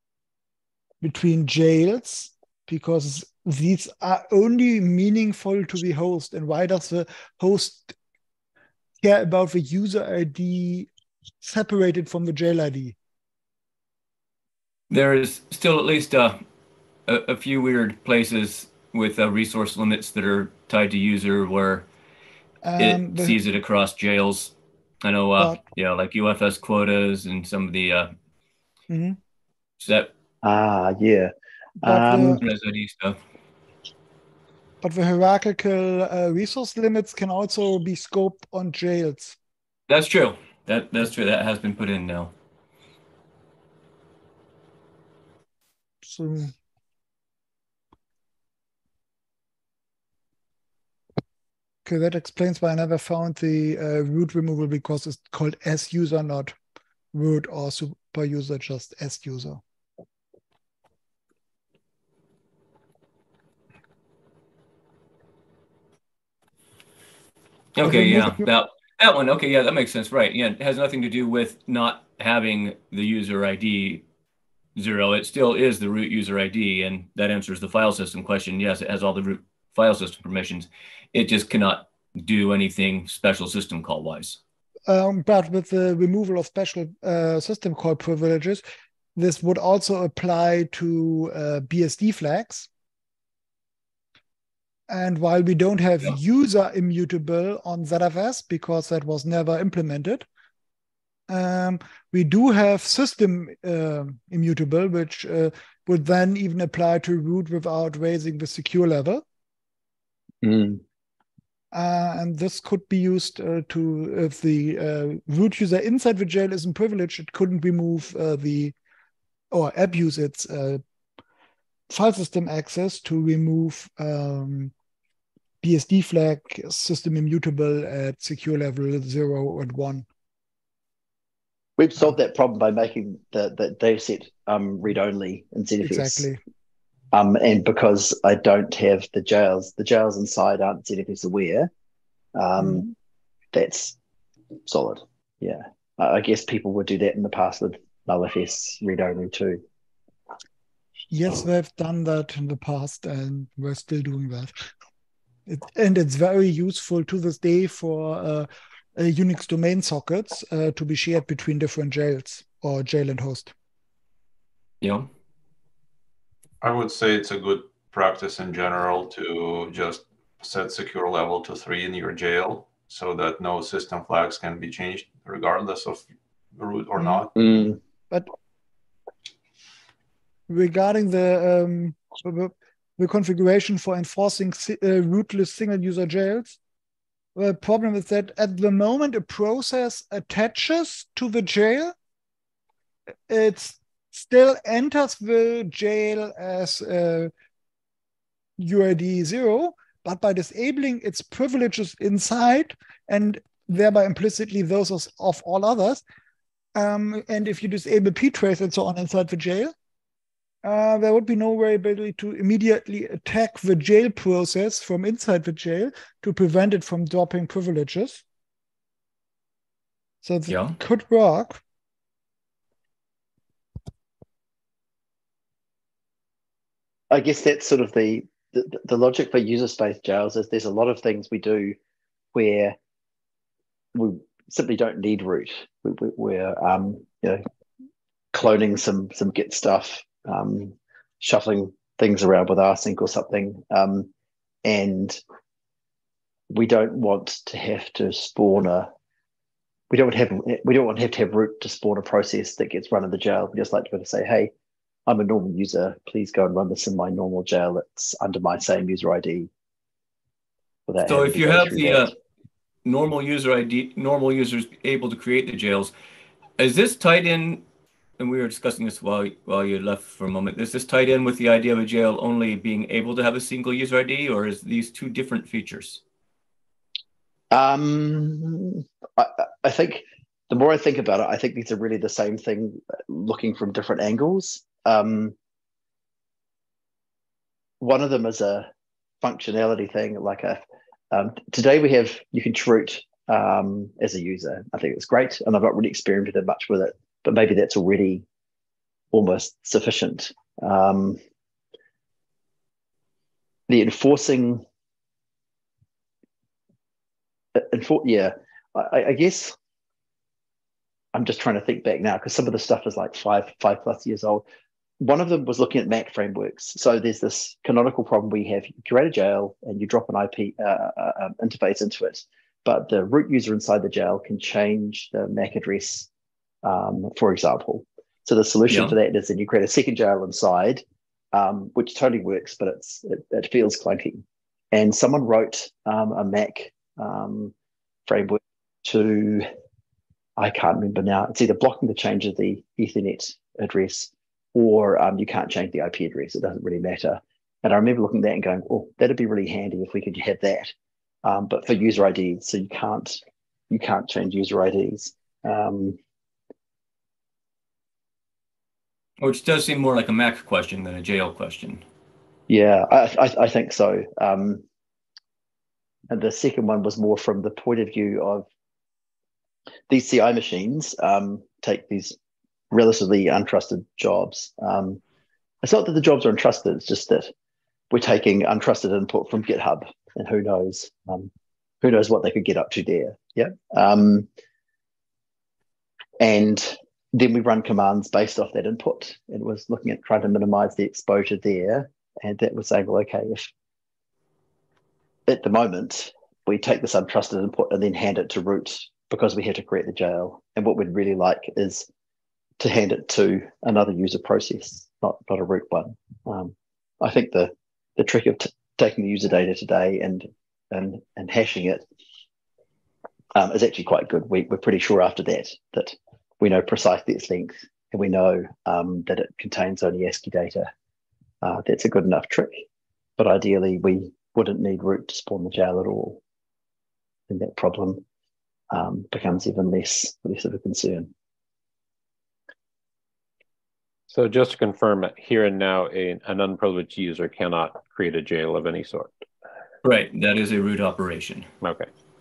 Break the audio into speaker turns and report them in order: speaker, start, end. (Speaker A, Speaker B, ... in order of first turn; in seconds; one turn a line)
Speaker A: 1.0-8.0
Speaker A: 9.0-10.9
Speaker A: 11.4-13.0
Speaker B: 14.9-16.4
Speaker B: 17.1-21.9
Speaker A: 22.6-23.4
Speaker B: 22.8-28.1
Speaker A: 28.9-29.2
Speaker B: 29.8-30.1
Speaker C: 30.4-32.4
Speaker A: 31.8-32.4
Speaker B: 32.4-33.2
Speaker A: 34.8-39.4
Speaker B: 39.9-42.3
Speaker A: 46.0-46.5
Speaker A: 51.9-56.6
Speaker A: 57.1-59.6
Speaker B: 67.8-74.0
Speaker A: 67.8-68.5
Speaker B: 74.8-84.4
Speaker A: 84.9-88.6
Speaker A: 89.2-92.7
Speaker A: 94.9-100.2
Speaker A: 101.3-109.2
Speaker C: 110.4-110.8
Speaker A: 111.7-118.7
Speaker A: 119.5-120.8
Speaker A: 121.9-124.7
Speaker A: 125.6-130.1
Speaker C: 131.8-136.3
Speaker A: 135.8-136.4
Speaker C: 137.1-141.7
Speaker C: 142.3-142.9
Speaker A: 142.6-142.9
Speaker C: 143.5-144.0
Speaker C: 144.7-149.6
Speaker A: 151.1-154.5
Speaker A: 155.5-163.5
Speaker B: 164.8-165.1
Speaker D: 166.6-177.3
Speaker A: 177.0-177.2
Speaker C: 177.3-177.8
Speaker A: 180.5-186.6
Speaker A: 187.4-191.9
Speaker A: 193.3-197.3
Speaker A: 198.6-206.0
Speaker A: 206.8-209.7
Speaker A: 210.6-218.2
Speaker A: 220.2-221.6
Speaker B: 220.5-220.8
Speaker C: 227.1-231.8
Speaker C: 232.3-232.8
Speaker C: 233.9-237.4
Speaker C: 238.3-244.1
Speaker C: 244.6-245.2
Speaker C: 246.5-248.9
Speaker C: 249.9-254.5
Speaker C: 255.1-259.5
Speaker C: 260.9-262.1
Speaker B: 261.0-262.1
Speaker B: 262.9-265.9
Speaker B: 266.6-267.6
Speaker B: 268.2-276.0
Speaker C: 277.5-285.4
Speaker C: 287.8-288.7
Speaker C: 289.2-290.6
Speaker C: 291.1-298.2
Speaker C: 299.1-301.2
Speaker C: 303.7-304.6
Speaker C: 307.6-309.6
Speaker C: 311.1-314.4
Speaker C: 315.0-326.1
Speaker C: 326.6-337.5
Speaker B: 328.7-328.9
Speaker C: 338.1-339.5
Speaker C: 340.4-350.7
Speaker C: 351.2-356.0
Speaker B: 359.2-361.8
Speaker C: 362.5-364.6
Speaker C: 366.1-368.5
Speaker C: 369.9-372.2
Speaker C: 372.7-375.0
Speaker C: 375.6-377.3
Speaker C: 377.9-381.3
Speaker C: 381.8-384.3
Speaker C: 386.2-393.5
Speaker C: 395.3-401.9
Speaker C: 402.6-411.8
Speaker C: 413.4-420.7
Speaker C: 421.4-422.6
Speaker C: 423.2-426.2
Speaker C: 427.3-428.0
Speaker C: 428.7-431.1
Speaker E: 434.1-439.1
Speaker B: 439.8-441.5
Speaker E: 441.6-441.9